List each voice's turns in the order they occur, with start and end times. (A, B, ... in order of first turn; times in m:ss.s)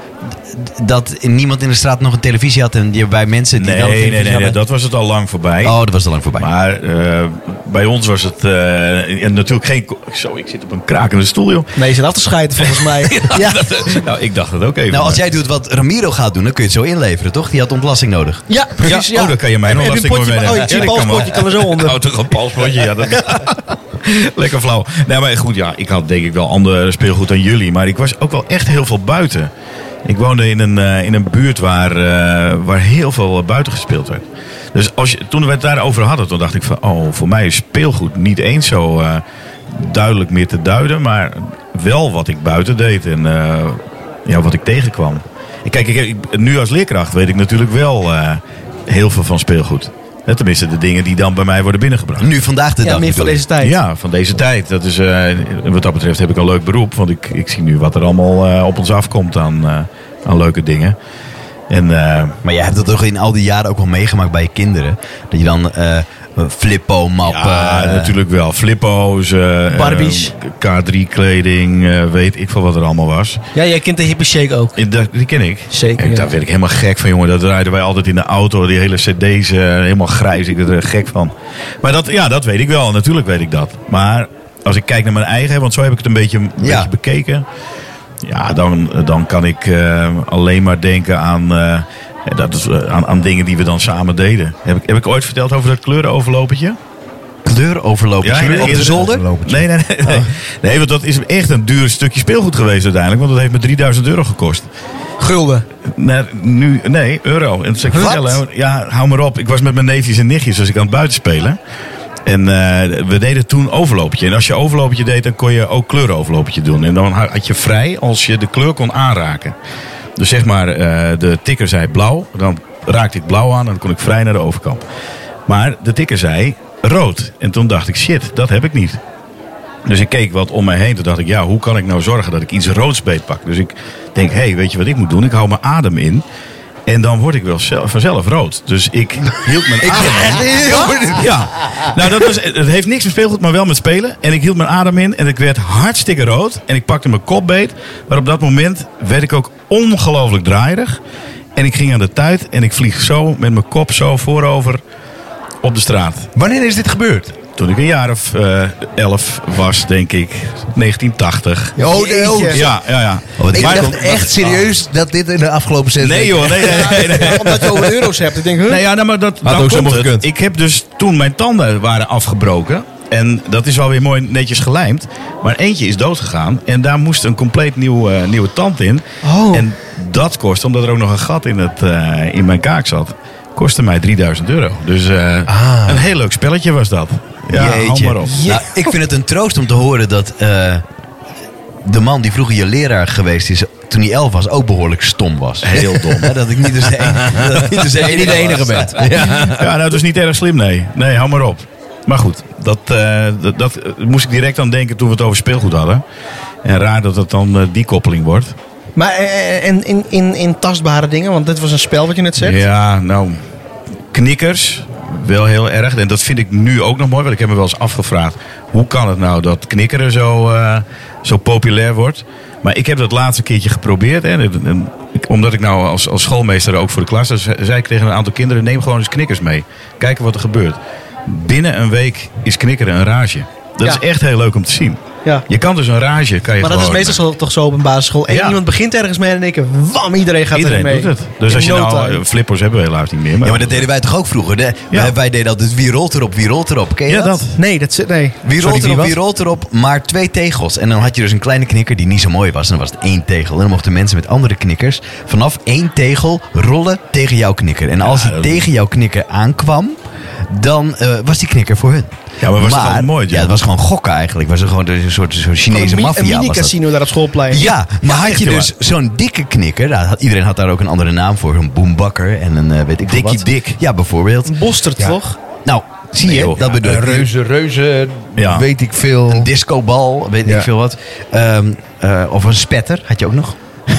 0:00.2-0:04.6 A
0:03.6-0:05.8 B
0:05.6-0:06.5 A
0:06.4-0:11.8 B
0:11.8-0:13.9 C
0:12.6-0:15.2 B
0:14.9-0:18.4 A
0:18.5-0:22.0 C
0:18.8-0:29.5 B
0:30.0-0:52.3 B
0:52.2-0:53.4 A
0:52.8-0:53.8 C
0:53.6-1:01.0 B
1:01.7-1:02.4 B
1:02.4-1:08.2 A
1:07.2-1:13.4 B
1:09.7-1:10.3 C
1:13.6-1:14.8 C
1:14.8-1:27.4 B
1:15.7-1:16.3 C
1:26.6-1:26.9 A
1:28.2-1:36.8 B
1:37.4-1:39.3 A
1:38.2-1:44.7 B
1:38.4-1:39.7 D
1:45.2-1:45.7 C
1:45.9-1:51.6 B
1:47.9-1:48.4 C
1:52.3-1:59.6 B
2:00.2-2:04.8 B
2:05.5-2:09.0 B
2:09.9-2:16.2 B
2:16.9-2:31.0 B
2:19.8-2:21.9 D
2:31.6-2:34.8 B
2:35.6-2:36.3 B
2:36.4-2:37.4 D
2:37.6-2:41.8 B
2:41.8-2:42.8 D
2:41.8-2:42.6 C
2:42.5-2:44.6 B
2:43.4-2:44.2 A
2:43.5-2:47.7 D
2:46.0-2:48.0 B
2:46.7-2:48.8 C
2:48.7-3:08.4 B
2:49.4-2:50.3 D
2:59.2-2:59.6 C
3:05.5-3:06.1 D
3:07.5-3:10.8 A
3:08.2-3:08.9 C
3:11.8-3:19.1 A
3:15.6-3:16.4 B
3:17.0-3:19.8 D
3:19.2-3:26.0 B
3:26.6-3:28.6 B
3:29.0-3:32.6 C
3:32.4-3:33.4 B
3:34.1-3:57.2 B
3:56.6-4:02.2 C
3:58.3-3:58.6 B
4:00.5-4:03.8 B
4:03.4-4:07.4 A
4:07.1-4:07.6 B
4:07.5-4:08.4 C
4:08.4-4:20.0 A
4:08.7-4:09.1 D
4:18.0-4:18.6 B
4:20.5-4:26.8 A
4:22.4-4:23.6 B
4:25.7-4:27.8 C
4:27.5-4:34.5 A
4:28.0-4:28.7 B
4:33.0-4:33.8 B
4:34.5-4:35.4 C
4:35.6-4:37.3 A
4:36.2-4:36.6 B
4:36.7-4:39.5 D
4:38.4-4:38.6 B
4:39.3-4:43.6 A